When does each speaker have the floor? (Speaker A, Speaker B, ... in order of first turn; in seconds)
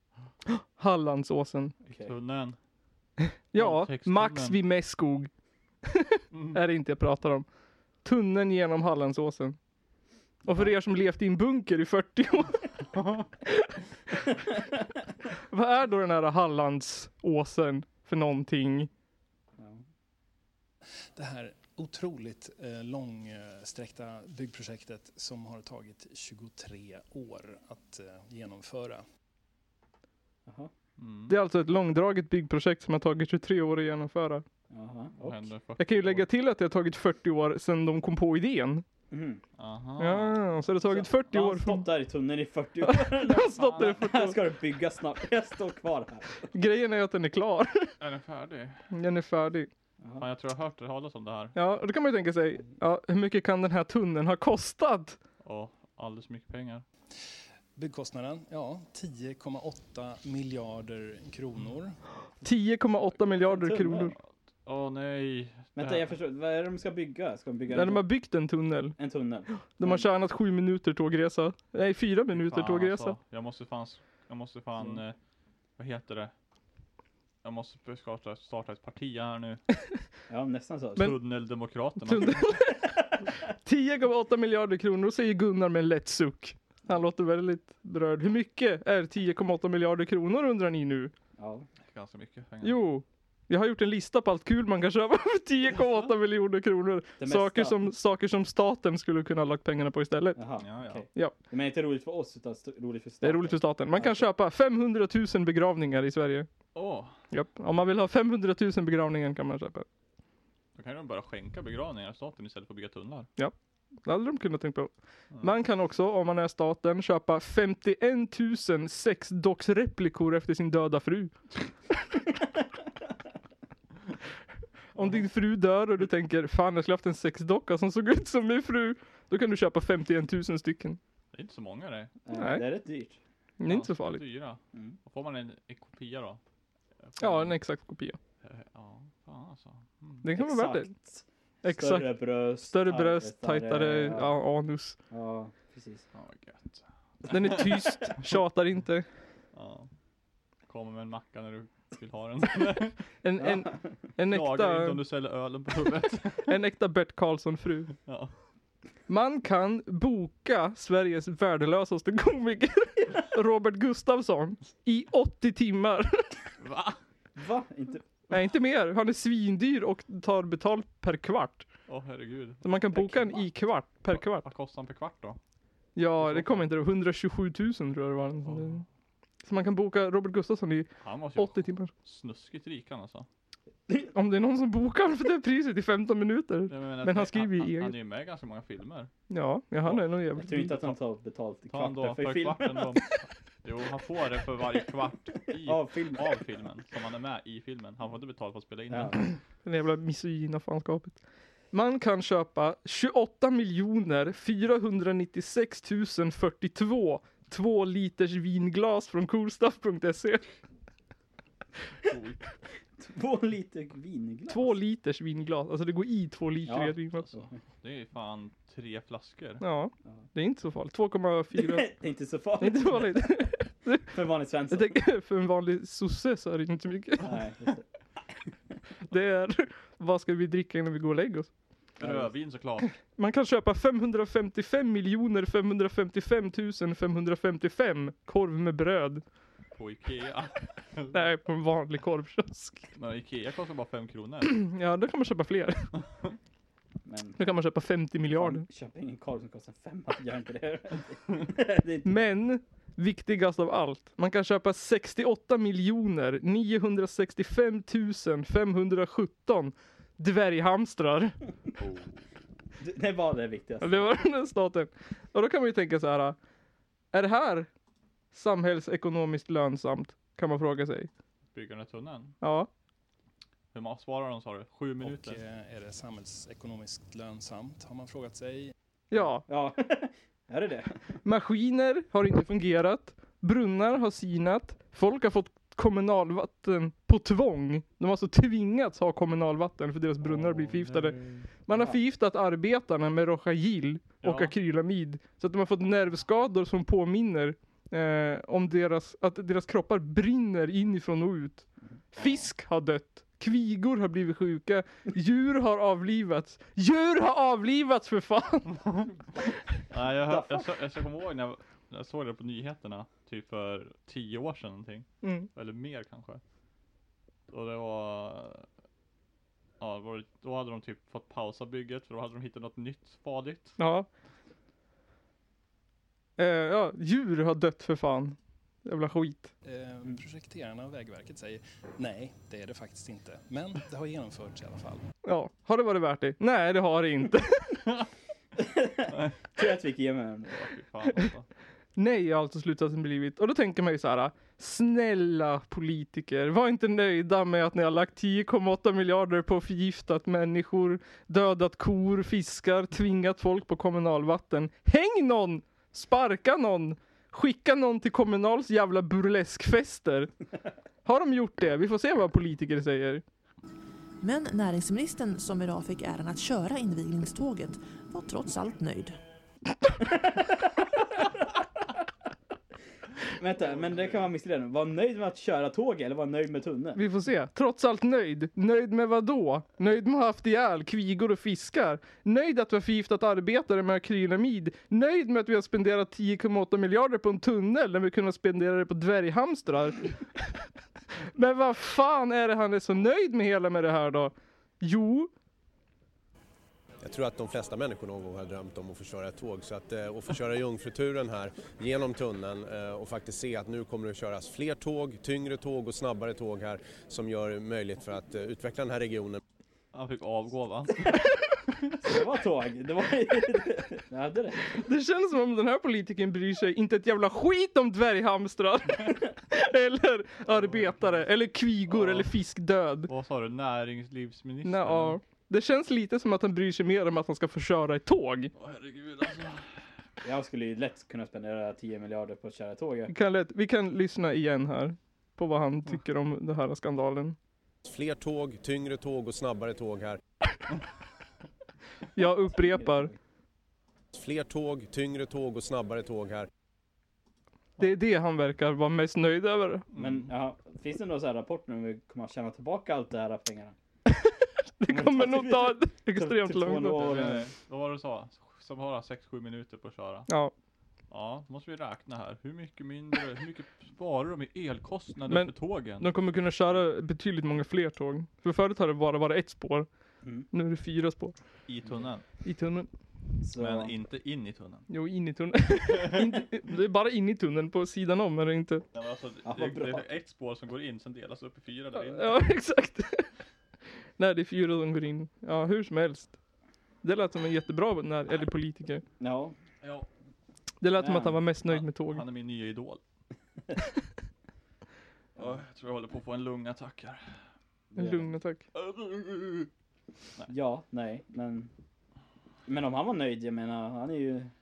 Speaker A: 0.5-1.7, 3.2-5.3, 5.8-7.5, 8.0-9.6, 10.4-12.8, 13.4-14.3, 15.5-18.9, 31.3-34.4, 35.8-38.8, 40.0-41.9, 42.8-44.4, 46.5-48.0, 48.9-49.7, 51.5-55.2, 62.4-64.1, 67.7-69.0, 69.7-73.2, 82.0-91.1, 92.6-100.4, 103.2-106.5, 107.3-109.8, 113.4-121.4, 125.0-131.0, 132.3-132.6, 133.6-134.2, 137.2-138.2, 140.2-140.9, 141.6-142.1, 142.7-144.9, 147.3-149.1, 153.2-155.0, 156.4-157.9, 159.1-166.4, 168.3-171.7, 172.6-174.5, 175.9-178.8, 179.4-181.9, 184.0-187.9, 189.3-190.9, 199.6-201.2, 201.7-210.5, 214.5-217.2, 219.6-221.9, 222.6-224.2, 224.7-227.4, 229.1-231.5, 232.8-239.2, 241.1-242.9, 244.4-245.9, 247.4-248.6, 252.0-261.4, 263.8-266.4, 267.1-267.7, 268.3-271.1, 272.4-272.7, 279.1-279.4, 281.2-308.9, 315.2-315.5, 323.8-324.1, 326.4-329.5, 335.2-337.9, 341.9-360.3, 361.0-363.2, 376.9-390.1, 391.3-395.3, 414.8-423.1, 424.6-428.5, 433.1-437.4, 442.1-443.1, 447.8-449.9, 454.1-457.1, 460.3-460.5, 465.3-469.9, 470.5-471.3, 472.4-472.9, 474.9-478.8, 481.9-483.3, 484.2-486.3, 487.0-489.0, 490.8-492.2, 498.0-498.6
Speaker B: 1.8-2.6, 3.5-4.6, 6.3-6.6, 12.9-13.2, 31.0-31.4, 35.1-36.3, 39.6-40.4, 43.4-44.1, 48.0-48.9, 50.2-51.6, 55.4-56.8, 64.6-66.1, 72.3-75.2, 75.8-76.3, 77.4-79.6, 81.0-82.6, 91.9-92.8, 95.8-96.1, 100.6-101.0, 106.7-107.1, 110.7-113.3, 125.0-125.2, 131.3-132.1, 133.7-136.4, 137.0-137.6, 138.4-140.2, 146.1-147.9, 149.5-149.9, 150.7-153.0, 154.3-156.6, 158.1-158.3, 166.6-167.0, 171.9-172.6, 174.1-175.4, 176.2-176.7, 178.4-178.8, 181.0-183.3, 186.7-189.1, 191.7-199.3, 212.0-212.4, 217.1-219.6, 232.0-232.9, 239.7-241.3, 242.9-244.6, 271.5-272.4, 273.7-275.4, 290.8-291.1, 294.2-294.5, 302.1-302.5, 308.8-309.1, 309.9-316.4, 317.5-318.7, 319.8-323.8, 339.1-339.5, 340.5-341.5, 409.9-411.2, 420.5-421.0, 421.9-422.3, 423.1-425.2, 428.5-429.7, 449.9-450.3, 456.9-460.3, 461.1-466.1, 471.6-472.2, 473.6-474.9, 478.9-482.5, 489.8-490.1, 491.6-493.0, 495.4-497.4, 498.7-499.7
Speaker C: 19.6-19.8, 30.4-30.7, 34.7-35.5, 39.1-39.4, 40.9-46.5, 50.0-50.2, 63.5-64.1, 65.7-68.1, 69.0-70.1, 80.3-81.1, 91.4-91.7, 97.2-97.8, 100.3-104.2, 132.2-133.2, 140.3-144.3, 145.1-146.1, 153.4-153.9, 167.3-168.0, 172.9-173.5, 190.3-193.0, 195.6-196.4, 198.9-199.2, 213.0-214.8, 216.7-217.5, 221.6-223.5, 224.0-225.0, 227.2-227.8, 232.0-232.3, 247.0-247.5, 248.3-252.1, 262.8-264.1, 279.5-281.2, 291.7-292.0, 310.2-310.6, 338.6-340.6, 370.0-370.9, 373.3-377.0, 412.0-414.8, 430.2-433.1, 442.5-443.2, 449.9-453.7, 454.9-457.5, 473.4-473.9, 479.4-480.0, 489.2-489.6, 491.0-491.4, 497.9-498.3, 500.5-501.7, 502.6-504.5
Speaker D: 21.1-29.0, 57.8-62.0, 275.0-278.7, 329.6-335.1
Speaker E: 364.2-369.2
Speaker F: 397.0-409.4, 437.8-440.2, 444.1-446.5